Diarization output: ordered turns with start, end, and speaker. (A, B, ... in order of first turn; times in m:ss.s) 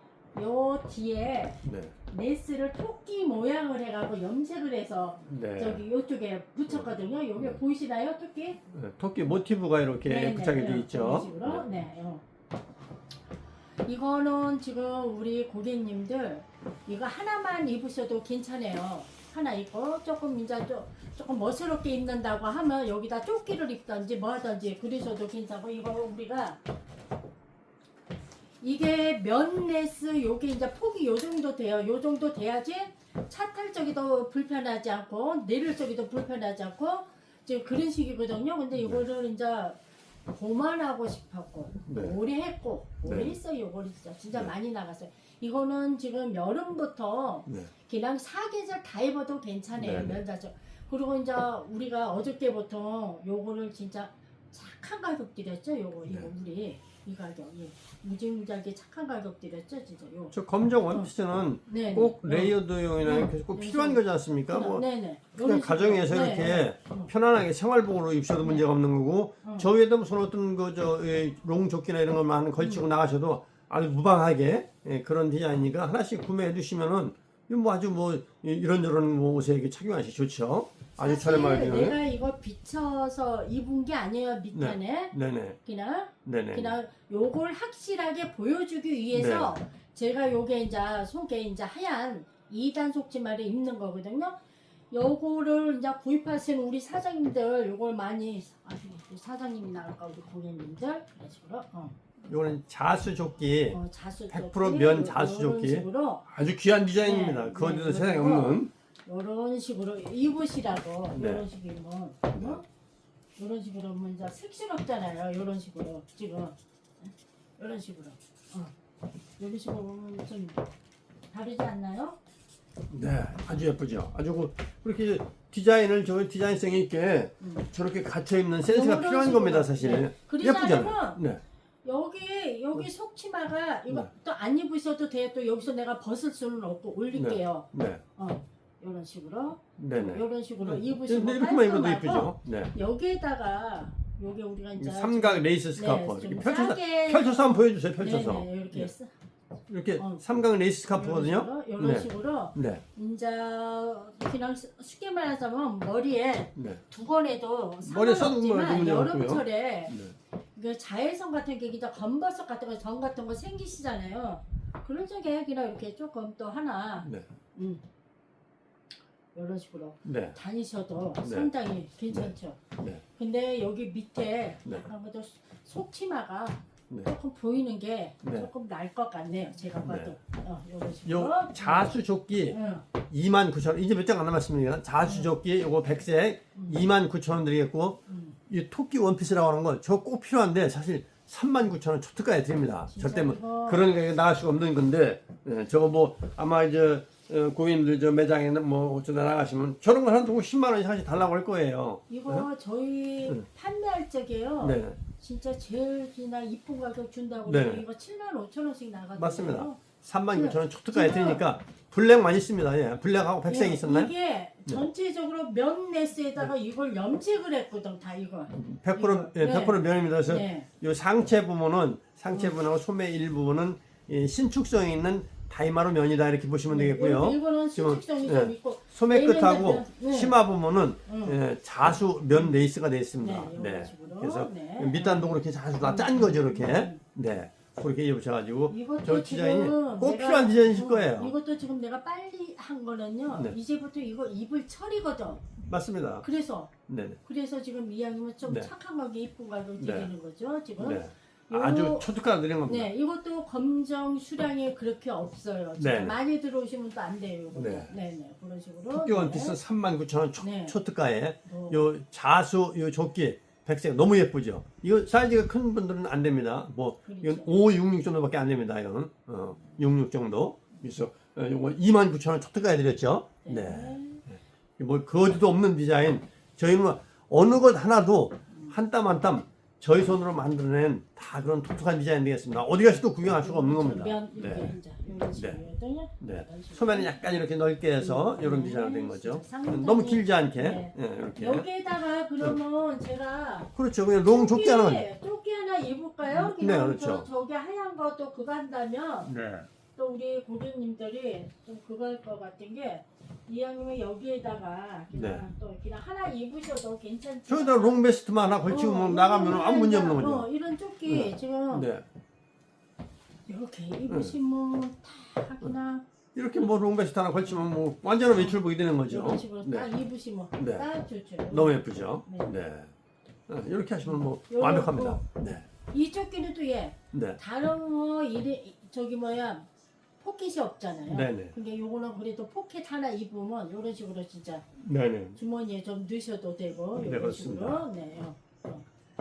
0:00.3-0:08.6 A
0:01.7-0:01.9 B
0:05.2-0:05.8 B
0:06.7-0:07.5 B
0:08.7-0:11.7 B
0:10.0-0:12.2 A
0:13.8-0:26.6 A
0:28.6-1:00.4 A
0:38.8-0:39.0 B
0:41.9-0:42.1 B
0:43.0-0:43.4 B
0:49.8-0:50.2 B
1:00.3-1:04.9 B
1:01.7-1:07.1 A
1:05.4-1:22.0 B
1:09.4-1:09.7 A
1:12.6-1:12.8 A
1:21.0-1:34.4 A
1:24.5-1:25.6 B
1:26.2-1:26.8 B
1:29.1-1:29.6 B
1:34.9-1:42.0 A
1:42.3-1:43.8 B
1:43.7-1:46.2 A
1:44.3-1:48.7 B
1:47.0-1:52.6 A
1:51.1-1:51.4 B
1:52.3-1:52.6 B
1:53.4-1:58.7 A
1:59.4-2:00.6 A
2:01.3-2:02.2 A
2:02.9-2:11.4 B
2:07.4-2:07.7 A
2:08.6-2:11.2 A
2:11.8-2:29.1 A
2:17.1-2:18.0 B
2:19.8-2:22.7 B
2:24.8-2:28.9 B
2:29.7-2:32.8 B
2:30.0-2:30.2 A
2:30.9-2:40.0 A
2:36.6-2:36.8 B
2:37.8-2:40.2 B
2:40.6-2:47.8 A
2:49.3-2:52.6 A
2:50.0-2:50.4 B
2:51.2-2:51.5 B
2:52.1-2:53.0 B
2:53.2-3:02.8 A
2:58.2-2:58.5 B
2:59.8-3:00.2 B
3:01.0-3:22.5 B
3:05.0-3:05.3 A
3:08.1-3:08.4 A
3:12.9-3:13.8 A
3:22.1-3:29.8 A
3:24.6-3:25.0 B
3:27.5-3:27.8 B
3:29.2-3:34.1 B
3:30.3-3:31.5 A
3:33.4-3:40.7 A
3:38.5-4:01.3 B
3:46.7-3:50.4 A
3:51.1-3:51.4 A
3:53.2-3:57.0 A
3:58.7-4:05.5 A
4:05.6-4:06.2 B
4:06.2-4:06.7 A
4:06.9-4:07.2 B
4:07.2-4:12.1 A
4:09.8-4:10.1 B
4:10.8-4:12.9 B
4:12.6-4:19.6 A
4:15.8-4:16.2 B
4:17.5-4:17.9 B
4:18.9-4:44.8 B
4:20.4-4:20.8 A
4:21.4-4:21.8 A
4:27.0-4:27.5 A
4:33.4-4:34.2 A
4:38.5-4:38.8 A
4:43.4-4:47.4 A
4:45.3-4:45.6 B
4:46.2-4:51.7 B
4:48.0-4:53.7 A
4:53.8-4:55.1 B
4:54.2-4:59.3 A
4:56.2-4:57.3 B
4:59.2-4:59.7 B
5:00.0-5:08.0 A
5:05.1-5:05.4 B
5:07.5-5:10.5 B
5:08.6-5:11.9 A
5:11.1-5:12.1 B
5:13.5-5:16.0 A
5:14.1-5:14.4 B
5:16.4-5:19.9 B
5:19.1-5:22.5 A
5:20.6-5:20.9 B
5:21.5-5:22.9 B
5:23.5-5:25.7 B
5:24.5-5:25.2 A
5:25.9-5:29.7 A
5:27.1-5:27.4 B
5:30.2-5:34.7 A
5:31.1-5:31.5 B
5:34.8-5:35.4 B
5:35.4-5:38.8 A
5:37.0-5:37.8 B